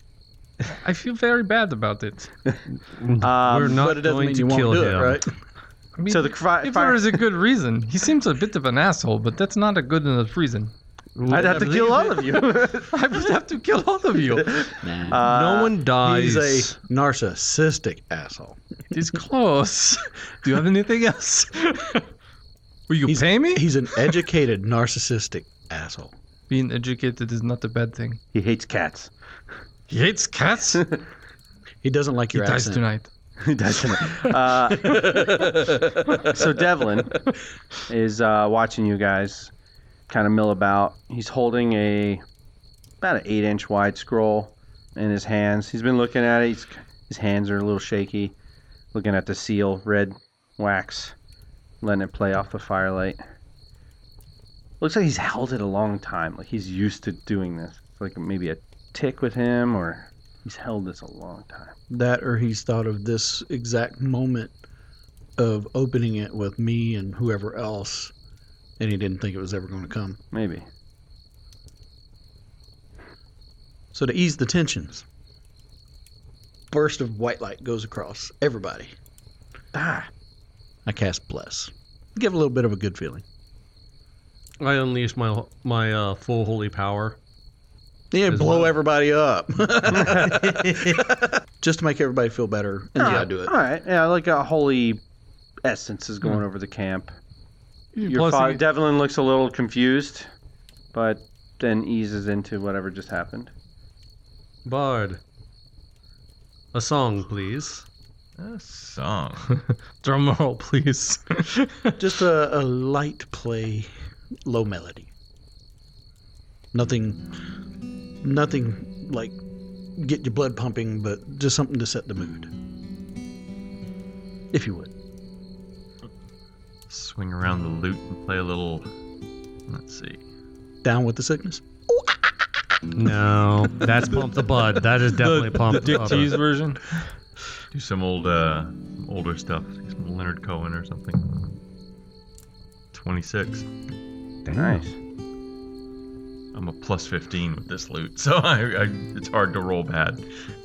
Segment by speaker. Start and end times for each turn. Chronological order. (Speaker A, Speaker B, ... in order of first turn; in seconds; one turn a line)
Speaker A: 0.7-2.3
Speaker B: 2.8-5.2
Speaker C: 3.2-3.8
Speaker D: 3.6-5.3
Speaker A: 6.0-10.7
Speaker C: 6.1-7.2
Speaker B: 11.2-12.1
Speaker C: 11.3-12.9
Speaker D: 11.3-12.0
Speaker A: 12.9-14.7
Speaker C: 14.4-15.7
Speaker D: 14.8-15.3
Speaker B: 15.2-16.8
Speaker D: 16.0-18.6
Speaker A: 18.9-22.1
Speaker A: 22.9-23.7
Speaker D: 23.1-26.1
Speaker A: 26.5-28.2
Speaker C: 28.3-29.1
Speaker A: 29.9-30.9
Speaker D: 31.8-32.8
Speaker A: 32.3-33.1
Speaker C: 33.4-37.2
Speaker D: 34.9-35.9
Speaker C: 37.9-39.5
Speaker C: 40.1-42.2
Speaker C: 43.0-48.3
Speaker C: 48.9-51.1
Speaker C: 51.8-53.2
Speaker C: 54.8-61.8
Speaker D: 61.9-64.5
Speaker D: 65.4-68.1
Speaker D: 68.8-70.2
Speaker C: 70.3-70.7
Speaker D: 73.9-75.0
Speaker D: 76.7-78.9
Speaker C: 79.7-80.1
Speaker D: 80.8-83.2
Speaker B: 84.6-87.2
Speaker D: 88.1-93.5
Speaker B: 88.3-88.8
Speaker C: 90.0-90.8
Speaker C: 93.0-95.0
Speaker C: 95.6-97.1
Speaker A: 98.0-98.6
Speaker C: 98.0-100.3
Speaker C: 100.9-103.5
Speaker B: 104.6-105.2
Speaker B: 106.7-107.9
Speaker E: 108.4-109.6
Speaker A: 110.0-112.0
Speaker D: 112.0-113.9
Speaker D: 114.5-115.1
Speaker D: 116.7-117.2
Speaker D: 118.2-119.4
Speaker D: 120.0-122.5
Speaker D: 124.5-124.9
Speaker E: 126.9-128.9
Speaker E: 129.7-130.2
Speaker D: 130.8-132.2
Speaker B: 132.9-136.4
Speaker A: 135.1-137.1
Speaker E: 137.7-141.6
Speaker E: 142.9-143.7
Speaker B: 144.4-144.9
Speaker C: 144.5-144.9
Speaker E: 146.5-150.2